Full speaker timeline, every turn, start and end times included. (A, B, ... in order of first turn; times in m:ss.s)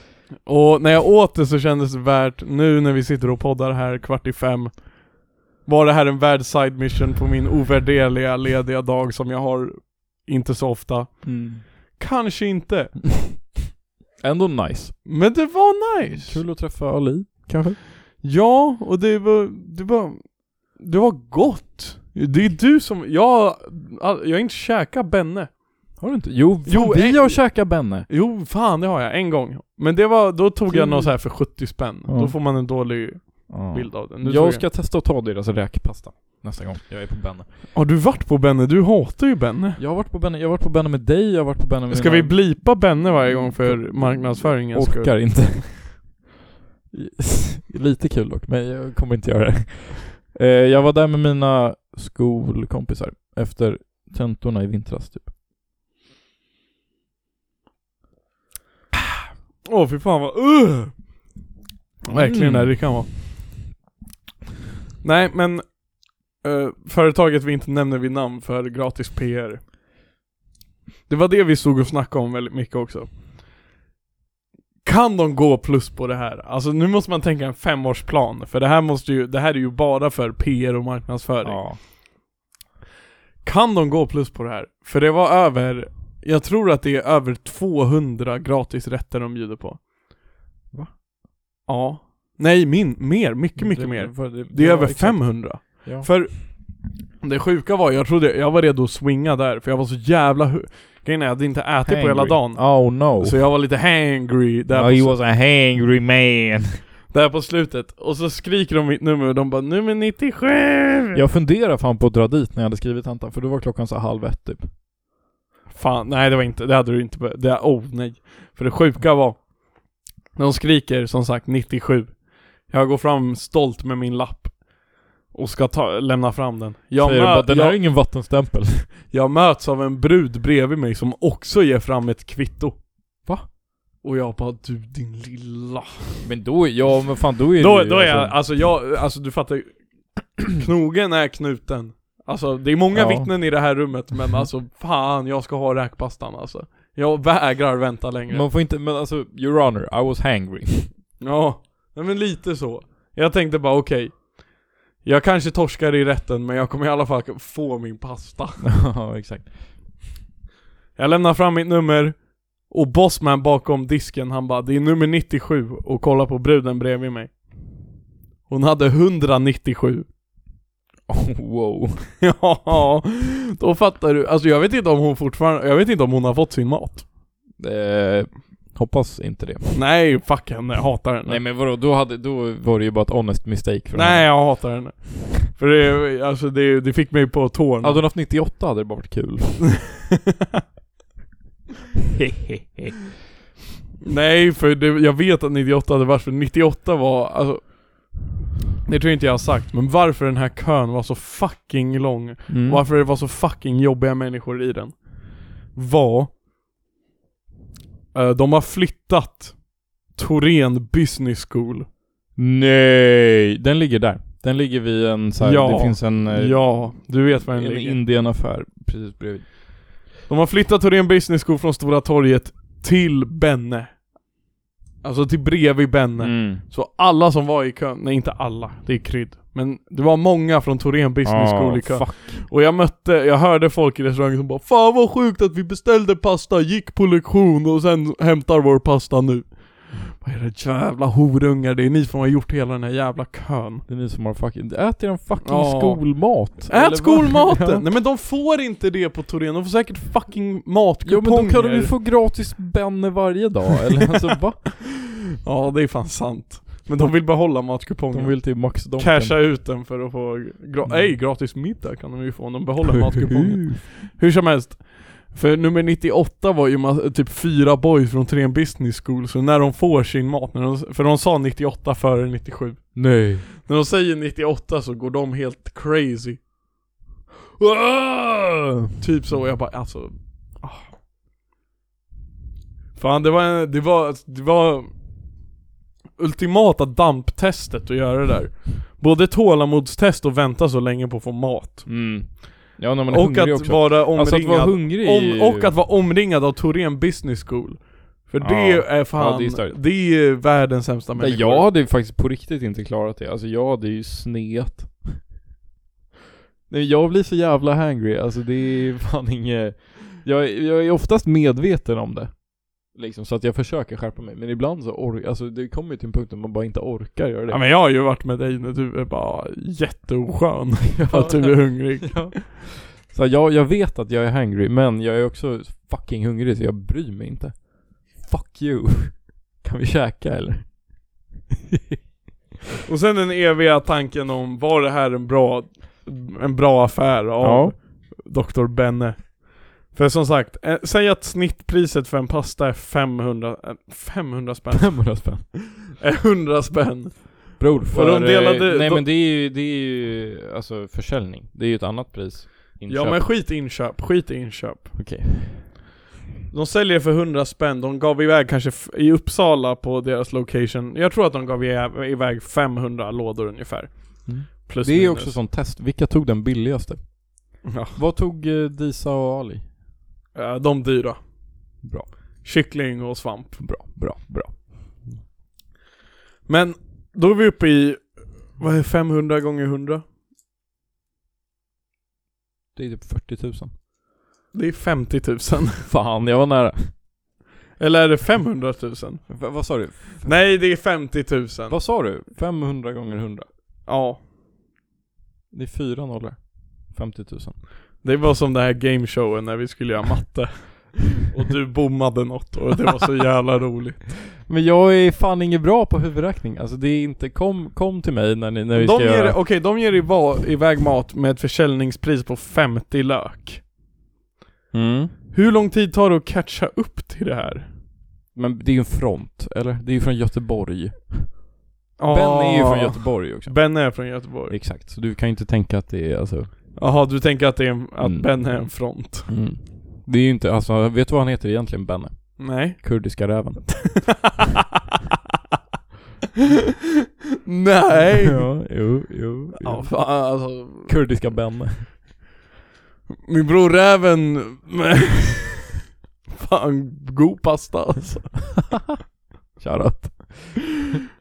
0:00.4-0:13.4 A
0:11.2-0:11.6 B
0:14.2-0:15.0 B
0:15.0-0:16.4 A
0:16.1-0:17.8 B
0:18.2-0:26.0 A
0:26.0-0:28.1 B
0:26.6-0:34.6 A
0:30.7-0:32.4 B
0:33.5-0:37.5 B
0:37.7-0:39.8 A
0:39.8-0:42.7 B
0:41.9-0:45.4 A
0:43.5-0:46.2 B
0:46.9-0:55.3 B
0:59.6-1:01.1 A
1:02.0-1:03.2 A
1:02.2-1:02.9 B
1:05.0-1:09.6 A
1:11.1-1:13.1 A
1:14.8-1:21.7 A
1:21.4-1:21.8 B
1:23.4-1:29.8 A
1:31.6-1:45.2 A
1:33.6-1:36.1 B
1:41.8-1:43.4 B
1:44.7-1:46.8 B
1:47.1-1:51.2 A
1:51.1-1:54.7 B
1:55.7-2:07.8 A
2:07.0-2:08.9 B
2:09.1-2:12.8 A
2:14.0-2:16.2 A
2:16.2-2:18.4 B
2:17.6-2:28.5 A
2:22.9-2:23.3 B
2:28.3-2:30.9 B
2:31.2-2:38.7 A
2:38.6-2:39.5 B
2:41.0-2:47.4 A
2:48.5-2:50.1 A
2:51.1-2:52.1 B
2:52.2-2:57.0 A
2:57.6-2:59.8 B
2:59.7-3:01.4 A
3:01.2-3:04.5 B
3:03.9-3:08.0 A
3:07.8-3:09.8 B
3:14.0-3:18.2 A
3:18.8-3:26.3 A
3:22.5-3:22.8 B
3:28.1-3:31.9 A
3:32.4-3:39.5 B
3:35.4-3:38.0 A
3:40.3-3:44.0 A
3:45.0-4:03.8 A
3:46.2-3:46.6 B
3:51.2-3:52.5 B
4:03.9-4:07.8 B
4:05.4-4:11.9 A
4:11.0-4:14.7 B
4:15.4-4:36.4 A
4:18.1-4:19.4 B
4:20.8-4:21.1 B
4:23.0-4:23.8 B
4:33.0-4:33.4 B
4:37.6-4:38.8 B
4:39.0-4:40.9 A
4:43.0-4:44.9 A
4:46.2-4:52.4 A
4:51.8-4:55.7 B
4:53.1-5:01.7 A
4:58.4-4:59.8 B
5:01.2-5:05.3 B
5:06.7-5:17.6 B
5:17.5-5:22.4 A
5:21.0-5:31.1 B
5:32.8-5:49.1 A
5:37.4-5:37.8 B
5:44.7-5:45.5 B
5:47.6-5:53.3 B
5:52.9-5:55.0 A
5:55.0-5:55.7 B
5:56.5-6:05.4 A
6:04.2-6:09.7 B
6:07.6-6:08.0 A
6:10.3-6:11.8 A
6:11.8-6:12.1 B
6:12.4-6:13.6 A
6:13.6-6:15.2 B
6:16.5-6:20.0 A
6:22.7-6:23.7 B
6:24.5-6:25.9 A
6:25.8-6:26.9 B
6:27.8-6:31.8 A
6:29.3-6:30.4 B
6:31.7-6:33.5 B
6:33.8-6:34.2 A
6:35.5-6:37.6 B
6:38.0-6:44.2 A
6:44.4-6:49.4 B
6:48.7-6:53.6 A
6:54.7-6:55.1 B
6:55.3-6:57.7 A
6:58.3-7:01.5 B
7:02.0-7:04.6 A
7:02.1-7:06.5 B
7:06.8-7:09.4 A
7:08.0-7:14.2 B
7:12.4-7:13.3 A
7:14.0-7:14.3 A
7:17.4-7:18.5 A
7:18.2-7:21.9 B
7:19.6-7:20.9 A
7:23.2-7:25.6 A
7:26.3-7:28.6 A
7:29.6-7:30.7 B